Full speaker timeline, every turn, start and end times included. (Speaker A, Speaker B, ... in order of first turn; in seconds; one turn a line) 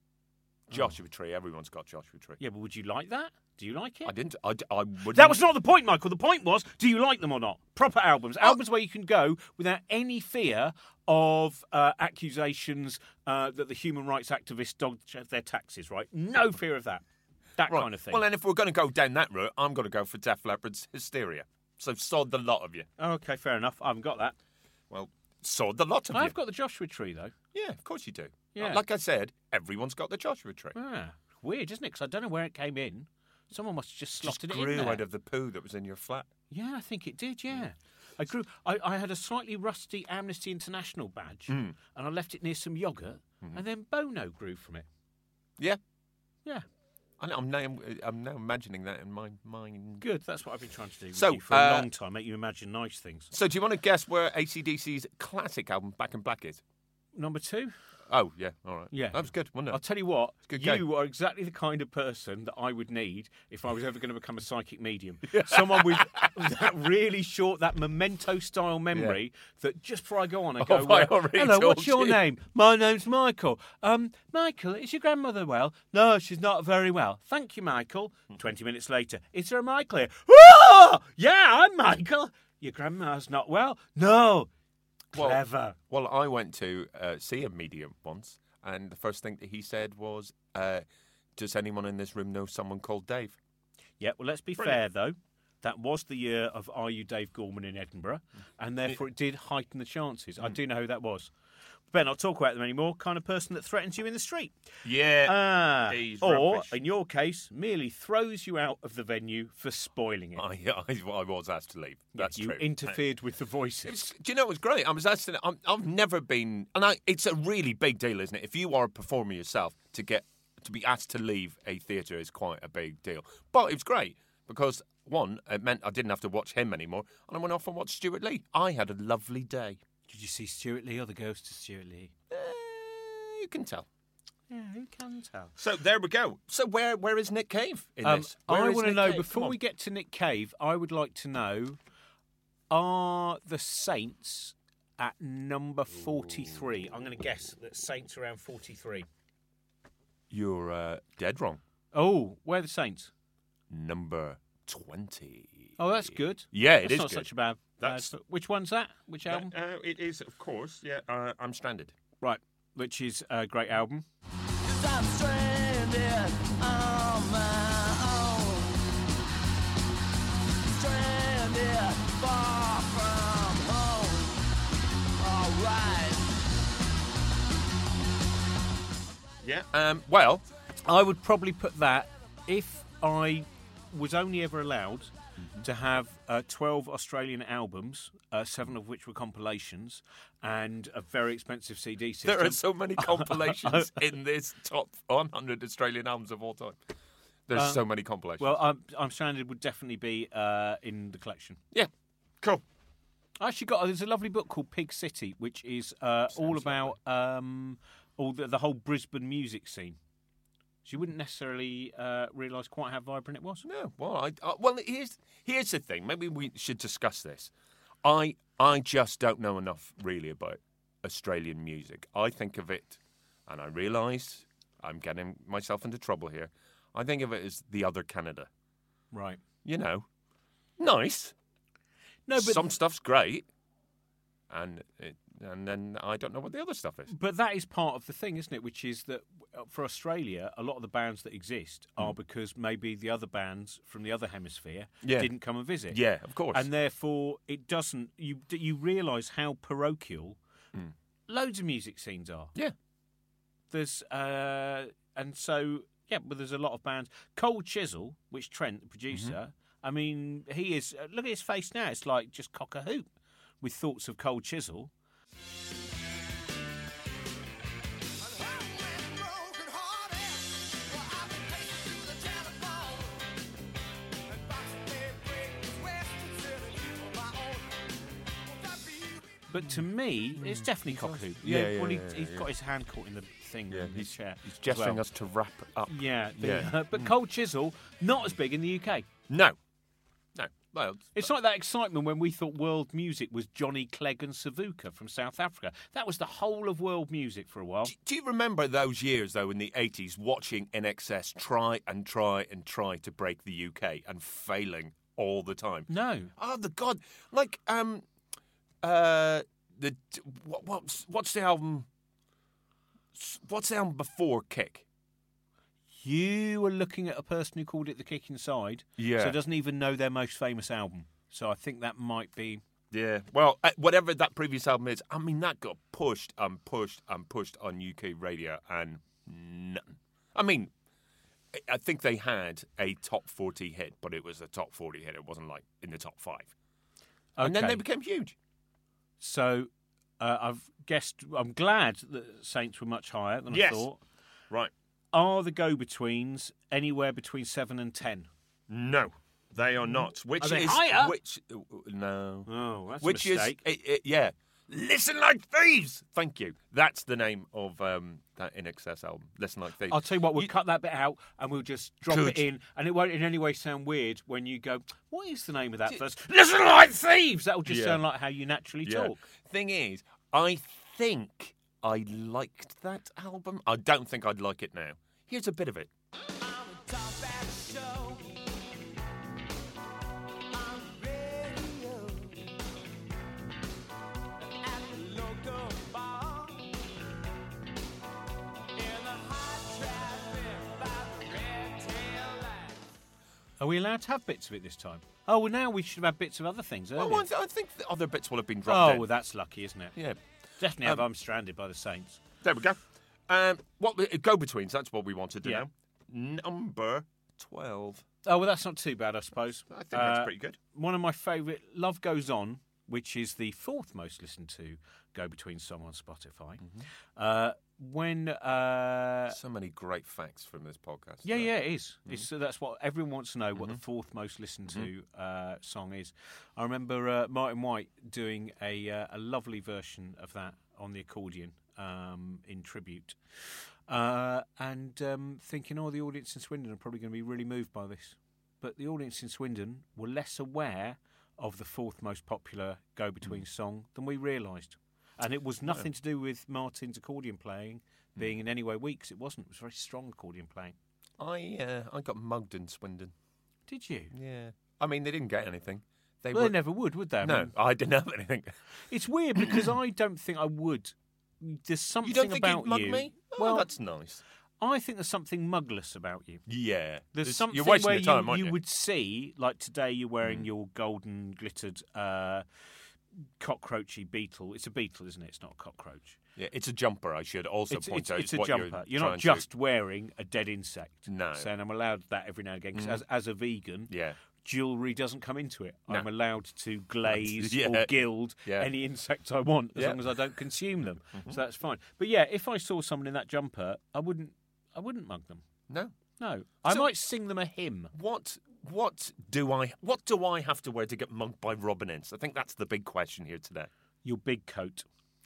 Speaker A: 0.7-2.4
Speaker B: 2.4-4.1
Speaker A: 4.0-5.4
Speaker B: 5.1-17.0
Speaker B: 17.6-18.2
Speaker A: 17.7-22.9
Speaker B: 23.0-24.4
Speaker A: 24.9-26.3
Speaker B: 26.1-27.3
Speaker A: 27.5-30.8
Speaker B: 28.5-28.8
Speaker B: 30.8-35.0
Speaker A: 34.2-36.3
Speaker B: 36.5-44.9
Speaker A: 41.5-41.8
Speaker A: 47.2-50.0
Speaker B: 50.0-53.3
Speaker A: 51.1-51.9
Speaker A: 53.3-56.6
Speaker B: 57.1-57.7
Speaker A: 58.1-59.8
Speaker B: 58.9-84.5
Speaker A: 60.5-60.9
Speaker A: 65.3-66.5
Speaker A: 70.6-72.2
Speaker B: 85.1-85.8
Speaker A: 85.1-90.8
Speaker A: 91.4-93.4
Speaker B: 94.0-101.3
Speaker B: 101.9-104.6
Speaker A: 104.8-106.8
Speaker B: 105.2-110.4
Speaker A: 110.4-113.0
Speaker B: 112.1-114.0
Speaker A: 113.8-129.8
Speaker B: 130.1-132.1
Speaker A: 132.3-133.9
Speaker B: 134.5-135.5
Speaker A: 135.6-139.6
Speaker B: 138.0-141.8
Speaker B: 142.7-149.1
Speaker A: 150.3-151.6
Speaker B: 151.9-153.1
Speaker A: 153.7-157.3
Speaker B: 155.8-159.5
Speaker A: 157.8-158.1
Speaker A: 159.3-161.9
Speaker B: 162.2-164.1
Speaker C: 164.7-168.8
Speaker C: 170.7-174.4
Speaker C: 175.2-176.4
Speaker A: 179.4-180.5
Speaker B: 180.8-194.0
Speaker A: 185.4-185.7
Speaker A: 192.2-196.8
Speaker A: 197.5-198.6
Speaker B: 197.6-197.8
Speaker B: 198.4-201.6
Speaker B: 203.4-210.0
Speaker A: 206.4-206.9
Speaker B: 210.8-213.7
Speaker A: 213.6-217.5
Speaker A: 218.0-228.5
Speaker B: 229.1-229.4
Speaker A: 229.7-230.1
Speaker A: 230.8-231.3
Speaker B: 232.3-232.7
Speaker A: 232.4-233.5
Speaker A: 234.5-237.1
Speaker B: 237.1-246.0
Speaker A: 245.0-245.3
Speaker A: 245.9-246.7
Speaker B: 246.5-250.4
Speaker B: 251.3-252.5
Speaker B: 253.7-263.1
Speaker A: 259.1-259.4
Speaker B: 263.6-264.9
Speaker C: 268.2-273.3
Speaker C: 274.3-277.8
Speaker C: 278.4-279.3
Speaker B: 279.5-285.0
Speaker A: 280.4-282.5
Speaker A: 283.7-287.1
Speaker B: 285.9-289.1
Speaker A: 289.3-289.6
Speaker A: 290.4-291.3
Speaker B: 291.1-297.9
Speaker A: 297.9-308.1
Speaker B: 305.9-306.3
Speaker A: 308.8-311.9
Speaker A: 313.1-314.9
Speaker B: 316.0-322.6
Speaker A: 319.0-319.4
Speaker A: 322.9-330.7
Speaker A: 331.5-336.5
Speaker B: 337.4-337.8
Speaker A: 337.4-338.4
Speaker B: 339.2-344.0
Speaker A: 343.5-343.9
Speaker B: 345.1-348.3
Speaker A: 348.7-360.5
Speaker B: 350.4-351.1
Speaker B: 352.5-353.6
Speaker B: 359.9-369.2
Speaker A: 362.1-362.4
Speaker A: 367.7-368.0
Speaker A: 368.8-375.9
Speaker C: 376.4-378.4
Speaker C: 380.5-382.5
Speaker C: 384.5-386.7
Speaker C: 388.8-392.8
Speaker B: 393.6-397.3
Speaker A: 397.0-399.1
Speaker B: 398.7-400.0
Speaker B: 400.6-402.2
Speaker A: 402.4-408.1
Speaker B: 408.2-419.4
Speaker A: 409.7-410.6
Speaker A: 419.3-421.5
Speaker B: 421.2-450.8
Speaker A: 451.2-453.1
Speaker B: 453.7-454.1
Speaker A: 454.1-456.6
Speaker B: 456.3-457.5
Speaker A: 457.2-458.5
Speaker B: 458.9-463.7
Speaker A: 459.4-459.7
Speaker A: 462.0-464.2
Speaker B: 464.6-466.4
Speaker A: 466.5-468.6
Speaker B: 467.1-472.4
Speaker A: 470.2-470.5
Speaker B: 473.4-476.2
Speaker A: 476.4-479.5
Speaker B: 477.7-495.5
Speaker A: 481.1-481.5
Speaker A: 482.8-483.0
Speaker A: 483.9-484.2
Speaker A: 487.1-488.7
Speaker A: 489.8-490.0
Speaker A: 491.1-491.4
Speaker A: 495.7-495.9
Speaker B: 496.2-497.9
Speaker A: 497.9-503.7
Speaker B: 504.0-504.9